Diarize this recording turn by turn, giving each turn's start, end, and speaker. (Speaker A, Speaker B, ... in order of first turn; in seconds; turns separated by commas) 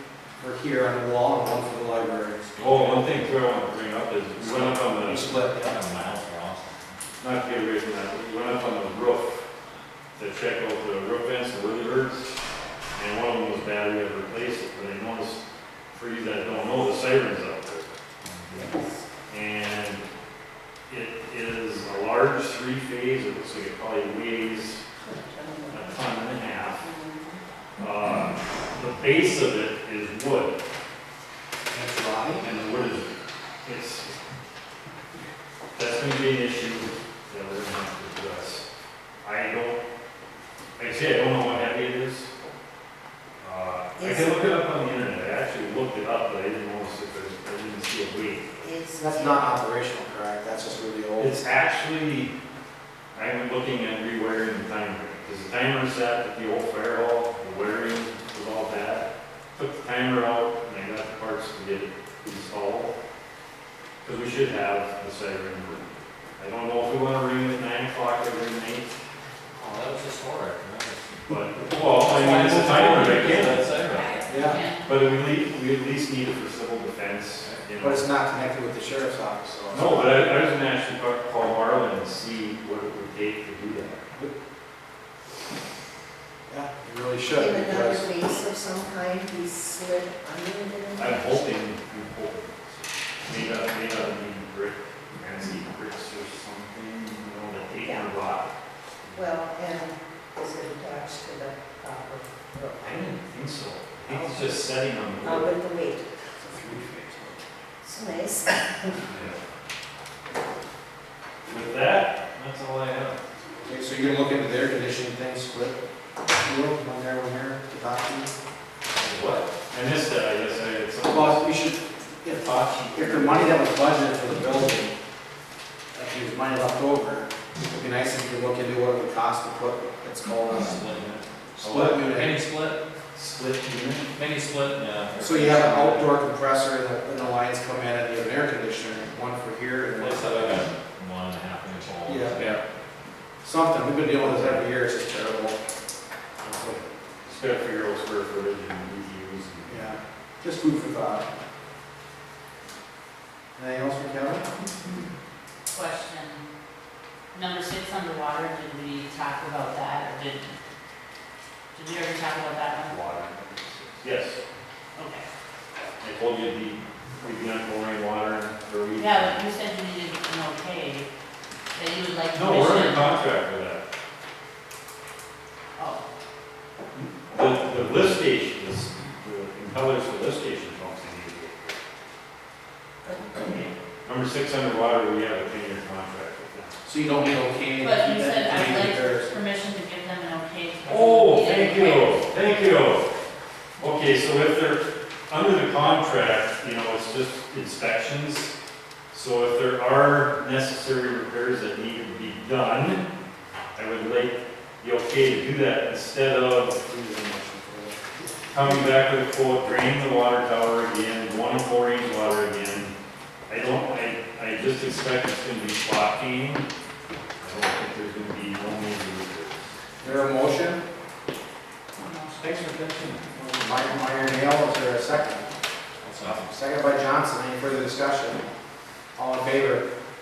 Speaker A: 0.4-2.4, Speaker B: 2.5-3.2, Speaker C: 2.6-5.3, Speaker A: 4.4-5.8, Speaker B: 5.6-7.0, Speaker C: 7.2-9.4, Speaker C: 10.2-12.3, Speaker C: 12.9-18.0, Speaker B: 18.2-18.8, Speaker D: 18.5-19.0, Speaker C: 19.3-20.0, Speaker C: 20.9-24.8, Speaker D: 25.0-26.1, Speaker C: 25.7-26.8, Speaker D: 26.8-27.4, Speaker C: 27.8-30.6, Speaker A: 31.7-32.5, Speaker C: 32.4-33.1, Speaker C: 33.6-34.2, Speaker C: 35.7-38.7, Speaker C: 39.2-39.8, Speaker C: 40.8-42.3, Speaker C: 43.4-48.5, Speaker D: 44.0-44.4, Speaker D: 48.6-49.6, Speaker A: 49.0-51.4, Speaker C: 51.2-52.3, Speaker C: 53.1-62.9, Speaker C: 64.0-68.9, Speaker B: 69.6-71.0, Speaker C: 71.3-73.7, Speaker B: 72.0-74.2, Speaker E: 73.9-75.0, Speaker A: 74.3-74.6, Speaker C: 74.8-78.0, Speaker B: 77.4-77.7, Speaker A: 77.8-80.2, Speaker C: 79.7-84.0, Speaker A: 86.5-88.1, Speaker D: 87.3-91.6, Speaker C: 91.0-98.5, Speaker D: 97.8-98.1, Speaker D: 99.1-103.2, Speaker C: 102.8-105.5, Speaker D: 104.0-104.7, Speaker D: 105.2-106.1, Speaker C: 106.4-107.4, Speaker D: 107.8-109.0, Speaker C: 109.0-109.4, Speaker C: 111.5-113.2, Speaker A: 113.7-115.8, Speaker A: 116.4-118.3, Speaker C: 119.0-121.5, Speaker A: 121.0-125.0, Speaker C: 122.4-123.6, Speaker A: 125.9-130.8, Speaker B: 130.5-132.8, Speaker A: 131.6-132.4, Speaker C: 133.1-134.1, Speaker B: 134.2-136.2, Speaker A: 135.2-140.5, Speaker B: 140.0-142.6, Speaker A: 142.1-142.4, Speaker A: 143.4-145.7, Speaker C: 144.2-144.6, Speaker C: 146.4-149.9, Speaker A: 149.7-151.3, Speaker A: 153.6-154.5, Speaker E: 155.7-156.4, Speaker E: 157.3-160.5, Speaker E: 161.7-163.0, Speaker C: 162.9-164.4, Speaker E: 165.0-165.2, Speaker C: 166.0-169.4, Speaker E: 169.0-171.1, Speaker E: 171.8-173.2, Speaker C: 172.3-173.8, Speaker E: 175.8-176.1, Speaker C: 176.9-181.8, Speaker E: 183.0-183.7, Speaker C: 184.1-186.8, Speaker A: 186.8-189.4, Speaker E: 187.8-192.2, Speaker C: 190.9-193.1, Speaker C: 193.8-198.5, Speaker C: 199.1-203.0, Speaker C: 203.8-206.8, Speaker A: 206.9-208.3, Speaker C: 208.5-212.9, Speaker C: 213.5-216.7, Speaker C: 217.4-219.6, Speaker A: 220.0-220.8, Speaker E: 222.0-222.9, Speaker C: 222.4-223.1, Speaker A: 223.3-225.5, Speaker B: 226.0-226.5, Speaker A: 226.3-228.4, Speaker A: 229.2-229.9